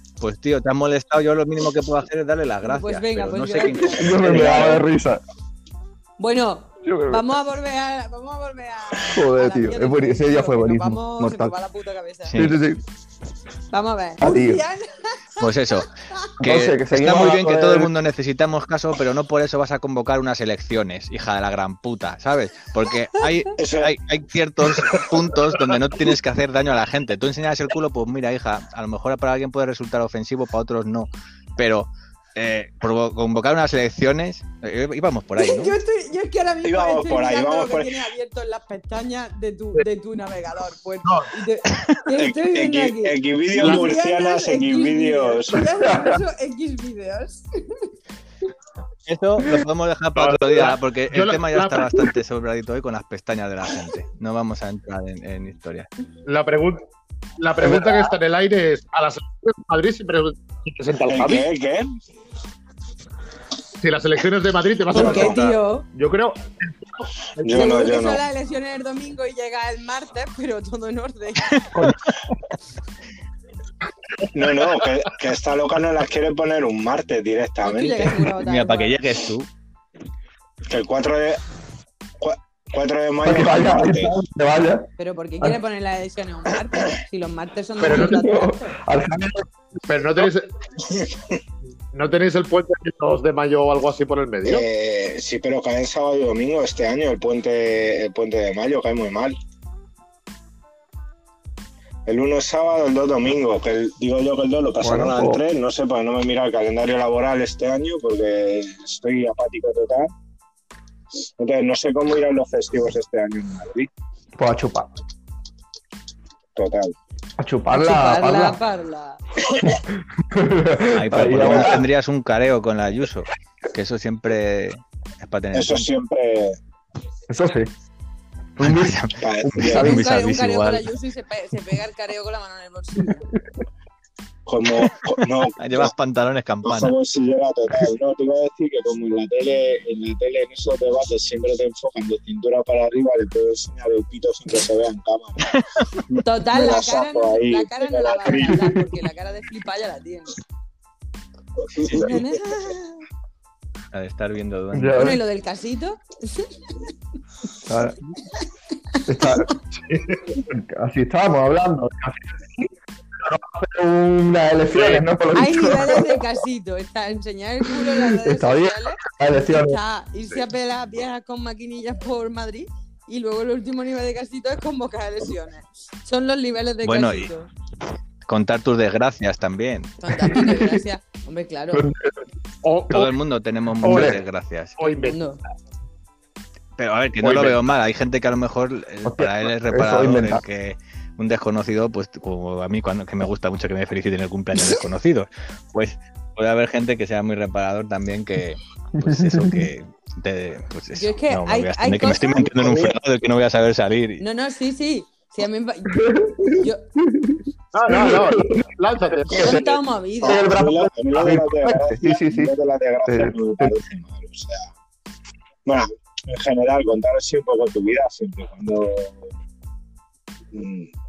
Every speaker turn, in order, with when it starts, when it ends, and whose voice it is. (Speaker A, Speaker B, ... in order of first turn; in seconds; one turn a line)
Speaker A: 0.2-4.8
Speaker B: 2.6-4.8
Speaker C: 3.7-5.2
Speaker D: 4.0-4.8
Speaker B: 6.2-12.4
Speaker C: 6.8-7.2
Speaker C: 9.1-11.6
Speaker A: 12.2-12.6
Speaker C: 12.3-12.8
Speaker B: 13.7-15.5
Speaker C: 14.2-14.7
Speaker A: 15.4-15.9
Speaker C: 16.4-17.9
Speaker A: 16.4-35.8
Speaker D: 23.6-23.9
Speaker B: 35.4-47.9
Speaker D: 36.6-38.1
Speaker E: 41.0-41.3
Speaker D: 42.2-45.6
Speaker E: 43.5-43.9
Speaker C: 45.7-46.2
Speaker A: 49.1-55.9
Speaker E: 50.1-52.1
Speaker E: 56.2-56.8
Speaker E: 57.4-61.5
Speaker C: 57.6-58.1
Speaker D: 61.1-61.9
Speaker E: 63.8-67.6
Speaker B: 64.9-65.9
Speaker D: 64.9-65.4
Speaker D: 67.4-68.2
Speaker B: 67.5-71.5
Speaker A: 71.7-72.1
Speaker D: 74.3-78.3
Speaker E: 74.4-74.9
Speaker B: 77.6-79.0
Speaker A: 78.4-79.5
Speaker D: 80.7-81.4
Speaker D: 82.2-84.2
Speaker C: 83.2-84.9
Speaker B: 85.0-88.7
Speaker C: 87.8-89.4
Speaker E: 87.8-88.2
Speaker E: 89.9-90.5
Speaker D: 90.8-91.4
Speaker E: 91.9-94.7
Speaker D: 94.5-99.4
Speaker D: 102.1-110.1
Speaker C: 104.8-105.4
Speaker D: 111.4-113.9
Speaker C: 114.4-114.9
Speaker D: 116.6-117.0
Speaker C: 117.4-118.6
Speaker B: 117.7-119.2
Speaker C: 120.3-121.9
Speaker A: 120.9-125.9
Speaker D: 121.3-121.8
Speaker D: 125.5-126.6
Speaker C: 127.3-127.7
Speaker C: 128.6-130.0
Speaker A: 128.6-130.9
Speaker D: 129.2-129.9
Speaker B: 129.7-133.3
Speaker D: 134.5-135.9
Speaker A: 135.6-136.9
Speaker D: 136.6-145.5
Speaker D: 146.1-148.6
Speaker B: 146.2-150.4
Speaker D: 151.6-152.2
Speaker B: 151.9-153.0
Speaker A: 153.9-155.2
Speaker C: 154.7-155.2
Speaker B: 154.9-156.5
Speaker C: 157.7-158.0
Speaker B: 159.0-159.5
Speaker C: 159.1-159.5
Speaker E: 159.9-160.2
Speaker C: 160.5-162.7
Speaker C: 163.2-166.2
Speaker E: 164.7-165.0
Speaker B: 165.3-177.5
Speaker C: 168.2-169.8
Speaker A: 176.8-177.3
Speaker A: 178.3-179.9
Speaker B: 180.0-181.8
Speaker C: 180.2-180.8
Speaker C: 181.7-182.2
Speaker E: 182.6-183.2
Speaker A: 182.9-184.8
Speaker C: 183.8-184.2
Speaker E: 183.8-184.2
Speaker E: 184.8-185.2
Speaker B: 184.9-185.4
Speaker A: 186.8-204.2
Speaker E: 187.2-187.6
Speaker C: 189.1-190.4
Speaker C: 199.0-199.7
Speaker B: 200.9-202.8
Speaker D: 202.6-202.9
Speaker B: 204.2-206.8
Speaker C: 205.9-208.6
Speaker E: 207.7-209.6
Speaker C: 209.3-212.5
Speaker B: 209.3-210.6
Speaker D: 210.2-214.7
Speaker C: 213.1-213.7
Speaker D: 215.7-219.3
Speaker D: 220.5-220.9